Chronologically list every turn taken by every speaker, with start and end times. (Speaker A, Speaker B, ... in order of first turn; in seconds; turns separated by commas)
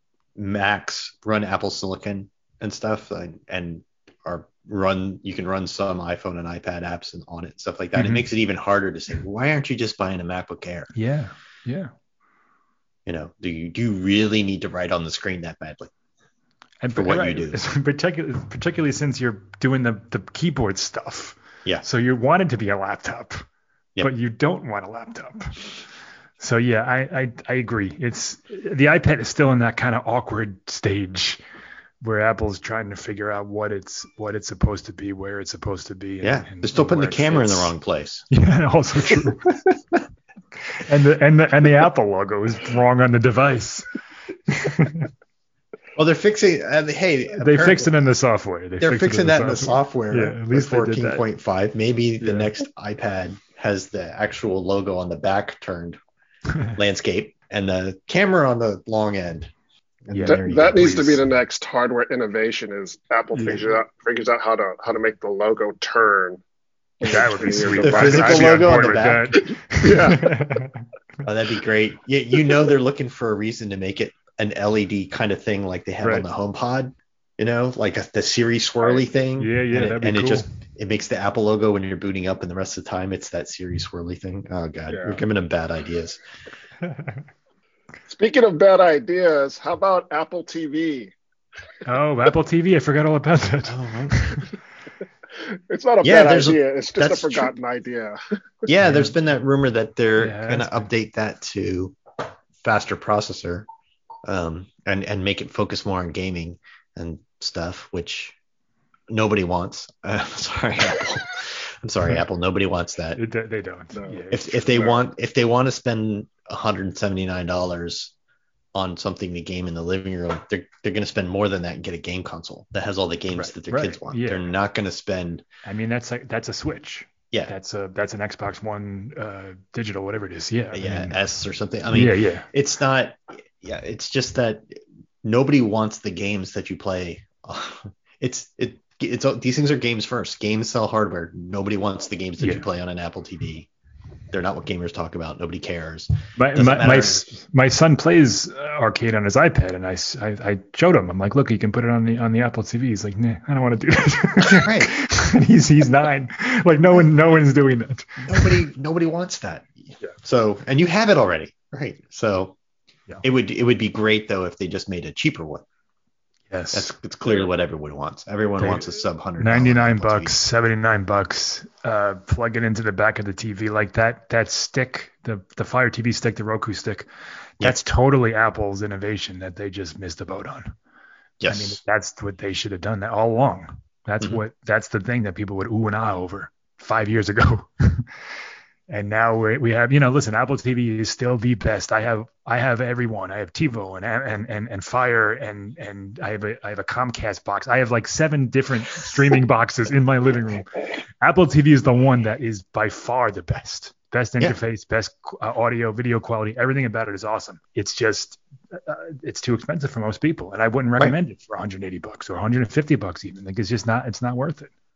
Speaker A: 0.4-10.9, Speaker B: 8.0-8.2, Speaker B: 10.9-11.9, Speaker A: 13.1-15.9, Speaker B: 16.8-23.4, Speaker A: 16.9-17.6, Speaker B: 24.0-25.7, Speaker B: 26.4-31.4, Speaker B: 32.0-37.7, Speaker A: 36.2-38.2, Speaker B: 38.3-39.6, Speaker A: 39.7-40.0, Speaker B: 40.7-43.9, Speaker B: 44.5-45.1, Speaker A: 46.0-48.1, Speaker B: 47.4-51.2, Speaker A: 48.8-56.0, Speaker B: 52.2-52.5, Speaker A: 56.8-59.5, Speaker A: 60.0-61.0, Speaker B: 60.1-61.2, Speaker C: 60.2-66.4, Speaker C: 67.0-70.3, Speaker B: 67.1-70.8, Speaker A: 67.8-69.4, Speaker A: 71.2-86.2, Speaker B: 79.4-80.5, Speaker C: 84.9-85.2, Speaker B: 86.8-87.2, Speaker C: 88.1-91.1, Speaker B: 91.8-94.5, Speaker A: 93.7-94.2, Speaker C: 95.4-98.2, Speaker A: 96.0-97.5, Speaker A: 98.7-102.0, Speaker B: 98.8-99.1, Speaker B: 100.2-100.9, Speaker A: 102.6-103.7, Speaker A: 104.2-108.3, Speaker A: 109.1-113.2, Speaker B: 113.2-115.0, Speaker C: 114.0-114.2, Speaker A: 114.3-118.1, Speaker A: 118.8-125.5, Speaker B: 123.3-124.4, Speaker B: 125.7-131.2, Speaker A: 130.7-143.7, Speaker B: 131.9-132.5, Speaker B: 142.4-142.7, Speaker A: 144.3-147.3, Speaker B: 146.4-158.6, Speaker A: 154.4-154.9, Speaker A: 158.3-162.6, Speaker A: 163.2-165.6, Speaker B: 166.5-166.9, Speaker A: 166.7-170.3, Speaker B: 168.6-177.1, Speaker B: 177.6-180.7, Speaker A: 181.4-181.8, Speaker B: 181.5-188.1, Speaker B: 188.9-214.7